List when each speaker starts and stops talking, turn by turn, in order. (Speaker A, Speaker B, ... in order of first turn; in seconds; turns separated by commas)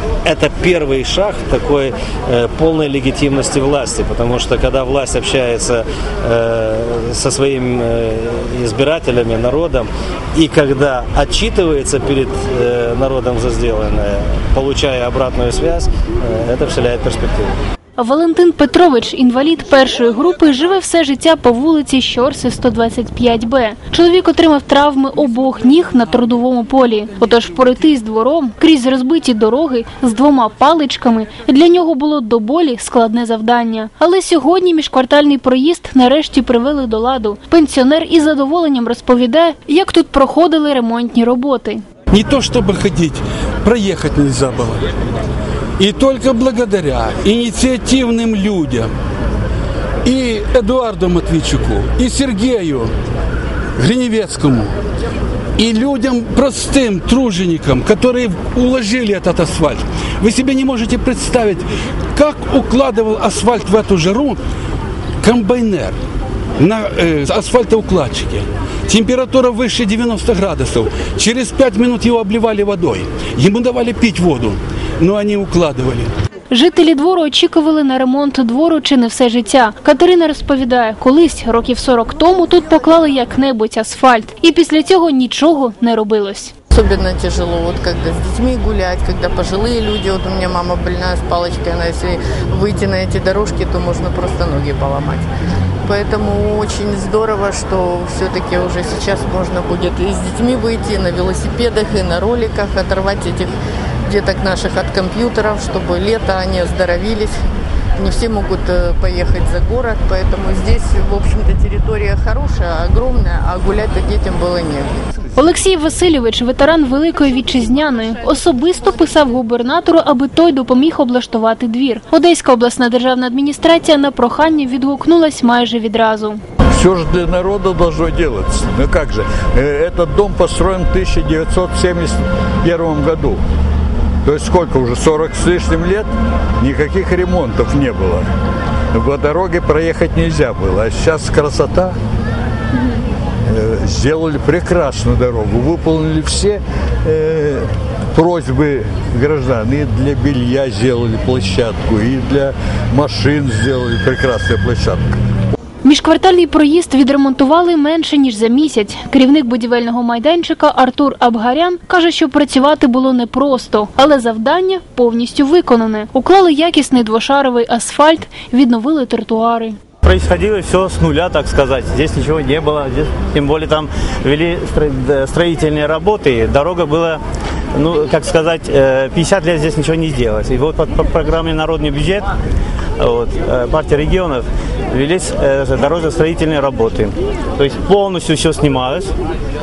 Speaker A: 0.2-17.6, Speaker B: 18.0-41.8, Speaker C: 42.1-44.8, Speaker C: 45.8-48.9, Speaker C: 50.0-52.9, Speaker C: 53.8-54.7, Speaker C: 55.5-64.4, Speaker C: 65.2-65.9, Speaker C: 66.6-76.1, Speaker B: 76.5-86.5, Speaker D: 86.7-95.3, Speaker D: 95.8-103.5, Speaker D: 104.1-107.4, Speaker D: 108.0-115.0, Speaker B: 115.3-126.4, Speaker E: 126.7-133.4, Speaker E: 134.2-138.3, Speaker E: 138.9-141.9, Speaker E: 143.4-155.2, Speaker B: 155.8-169.8, Speaker F: 170.0-177.2, Speaker F: 177.7-182.3, Speaker F: 183.0-189.1